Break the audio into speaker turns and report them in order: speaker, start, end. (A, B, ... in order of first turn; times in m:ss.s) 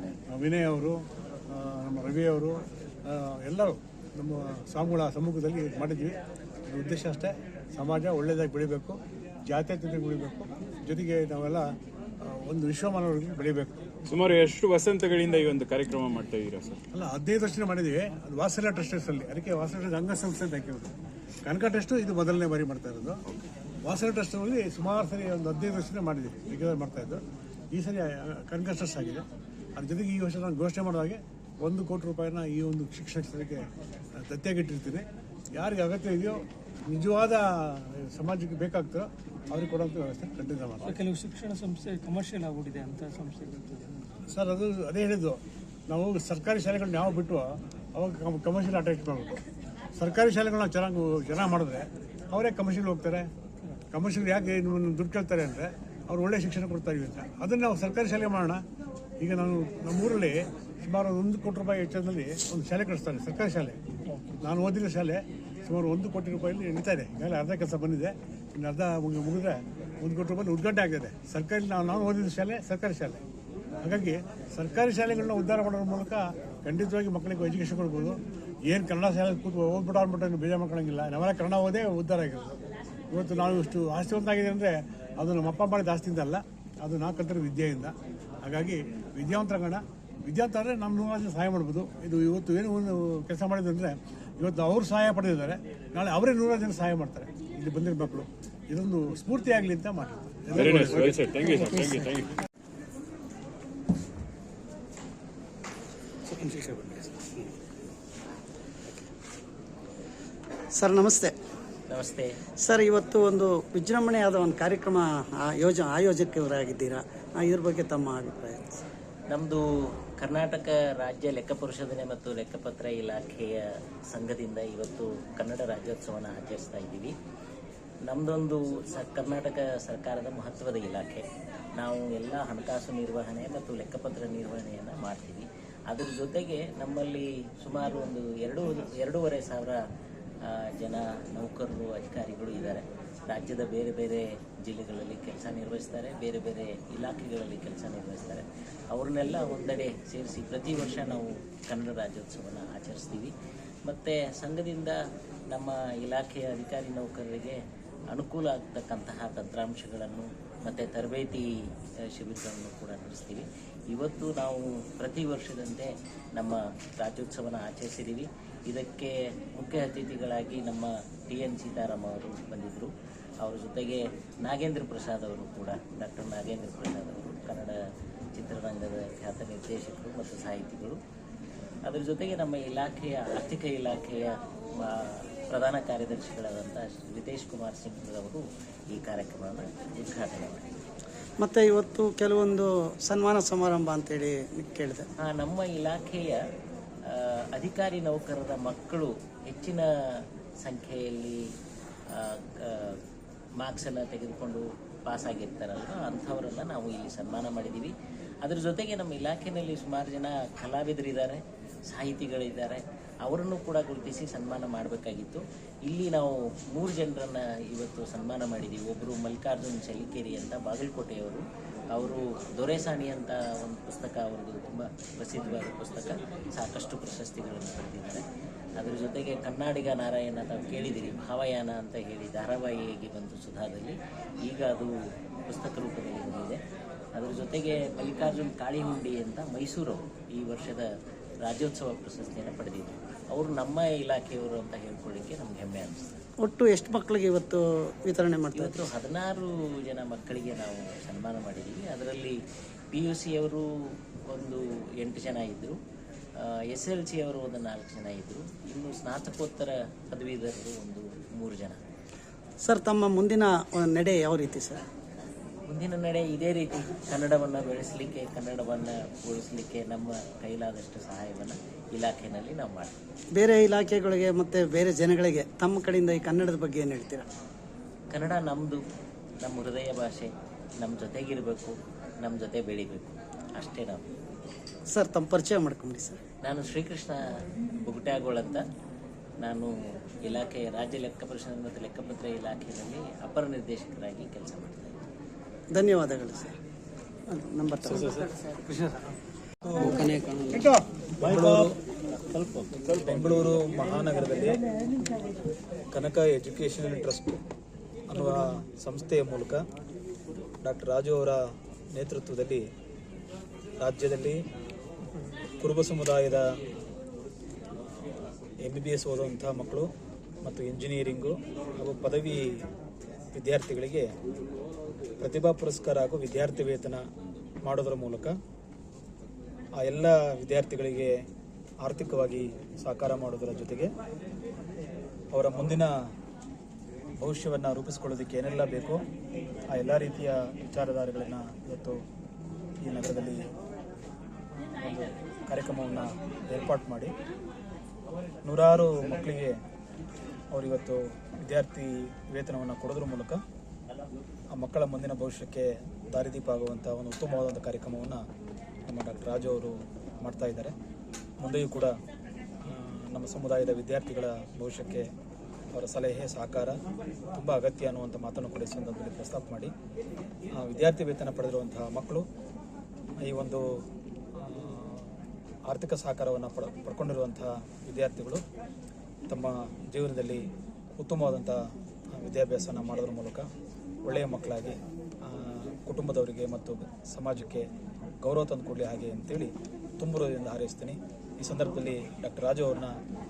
0:00.3-0:11.6 A
0:12.2-0:13.8 A
0:14.1-0:16.8 B
0:16.9-0:20.9 A
0:21.4-0:23.2 A
0:23.8-0:27.2 A
0:27.7-0:29.2 A
0:29.8-0:33.6 A
0:34.2-0:40.9 A
0:40.8-0:43.9 C
0:44.3-0:49.4 A
0:50.0-0:53.3 A
0:53.9-0:58.6 A
0:59.2-1:03.8 A
1:04.4-1:13.2 A
1:13.8-1:22.5 A
1:23.1-1:41.2 A
1:40.5-1:42.3 B
1:41.6-1:42.0 D
1:46.3-1:47.3 D
1:50.7-1:51.3 D
1:51.9-1:52.4 E
1:52.6-1:58.8 D
1:59.3-1:59.6 E
2:00.2-2:07.1 E
2:08.1-2:19.8 E
2:20.5-2:33.3 E
2:33.9-2:35.0 E
2:35.5-2:37.6 E
2:38.1-2:41.5 E
2:42.1-2:52.9 E
2:53.4-2:57.8 E
2:58.4-3:01.0 E
3:01.9-3:10.7 E
3:11.4-3:15.1 D
3:15.2-3:16.4 E
3:17.1-3:19.9 E
3:20.6-3:21.5 E
3:22.2-3:23.0 E
3:23.6-3:27.9 E
3:28.4-3:41.4 E
3:41.9-3:48.2 E
3:48.8-3:54.9 E
3:55.4-3:56.6 E
3:57.1-4:00.9 E
4:01.4-4:06.2 E
4:06.4-4:08.8 D
4:08.5-4:12.4 E
4:12.9-4:13.6 E
4:14.3-4:15.8 E
4:16.7-4:21.8 E
4:22.6-4:24.8 D
4:25.7-4:32.9 E
4:33.3-4:37.3 D
4:38.1-4:38.8 E
4:39.4-4:44.0 E
4:44.9-4:46.2 D
4:46.4-4:47.2 E
4:47.8-4:48.6 E
4:49.4-4:49.7 E
4:50.2-4:54.8 E
4:55.7-4:56.5 D
4:57.3-4:59.1 D
4:59.6-5:00.1 F
5:01.2-5:01.7 F
5:03.0-5:04.6 F
5:05.9-5:07.4 F
5:08.1-5:09.6 F
5:10.6-5:11.4 F
5:11.9-5:12.6 F
5:13.8-5:14.4 F
5:15.6-5:16.4 F
5:18.6-5:19.9 F
5:20.4-5:22.6 F
5:23.3-5:24.1 F
5:25.2-5:27.0 F
5:27.6-5:28.3 F
5:29.8-5:31.1 F
5:31.8-5:33.9 F
5:35.3-5:35.9 F
5:37.2-5:39.0 F
5:39.7-5:42.0 F
5:42.8-5:43.4 F
5:44.8-5:47.1 F
5:48.4-5:49.5 F
5:50.5-5:53.4 F
5:54.5-5:58.2 F
5:58.9-6:00.7 F
6:01.4-6:01.9 F
6:02.6-6:05.0 F
6:05.7-6:06.8 F
6:07.3-6:09.7 F
6:10.6-6:12.2 F
6:13.2-6:13.6 F
6:14.4-6:15.2 F
6:15.7-6:18.4 F
6:19.3-6:20.4 F
6:21.0-6:21.6 F
6:22.1-6:23.4 F
6:24.0-6:27.7 F
6:28.2-6:32.9 F